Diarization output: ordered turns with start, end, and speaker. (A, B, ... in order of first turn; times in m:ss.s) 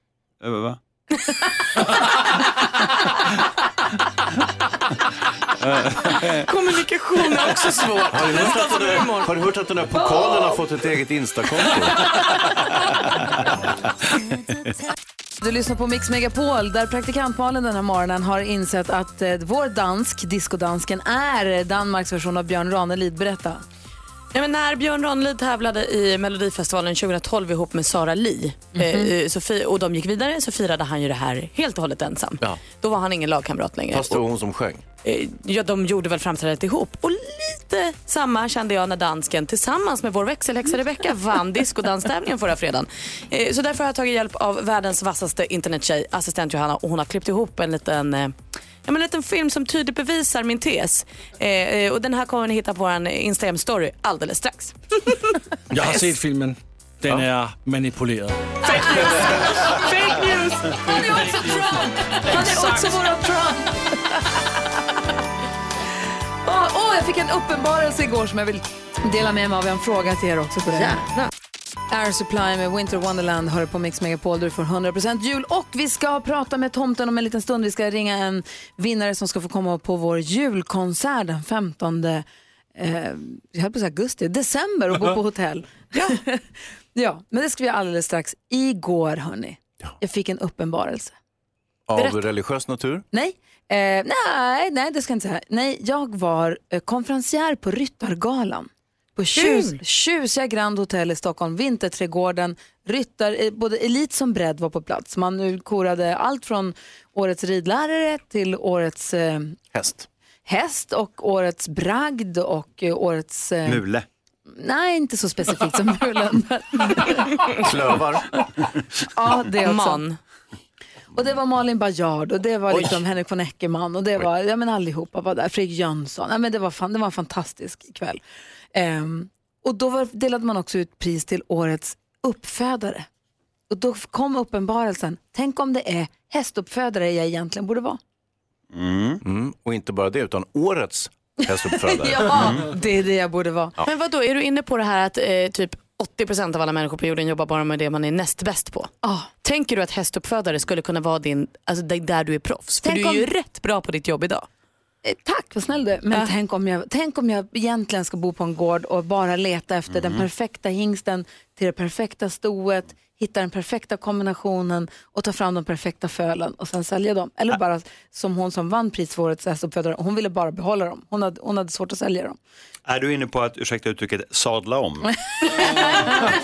0:00.4-0:00.8 A
0:06.2-0:09.3 B
0:08.0-0:12.0 C
0:15.4-0:23.6 D
0:24.3-0:34.2 B
0:28.8-0:29.1 D
0:33.9-0:34.8 C
0:35.0-0:54.8 B
0:55.7-0:58.6 E
0:58.8-0:59.0 B
0:59.7-1:00.7 B
1:00.8-1:03.7 D
1:02.2-1:02.9 B
1:06.4-1:11.0 D
1:10.7-1:11.3 B
1:11.9-1:22.2 D
1:22.8-1:26.4 D
1:27.0-1:31.1 D
1:31.9-1:33.0 C
1:32.0-1:32.2 B
1:33.1-1:49.6 D
1:39.3-1:39.8 B
1:49.7-1:50.1 C
1:50.5-1:53.8 D
1:53.6-1:54.1 A
1:54.6-1:57.2 D
1:57.6-1:58.3 C
1:59.2-2:00.0 D
1:59.6-2:00.2 B
2:01.2-2:08.2 D
2:08.8-2:13.1 D
2:13.7-2:18.0 D
2:18.7-2:19.2 A
2:19.2-2:22.5 C
2:21.9-2:23.7 D
2:23.8-2:34.5 B
2:32.8-2:33.3 D
2:35.0-2:52.4 D
2:39.9-2:40.2 A
2:52.8-2:55.1 A
2:55.8-2:56.2 D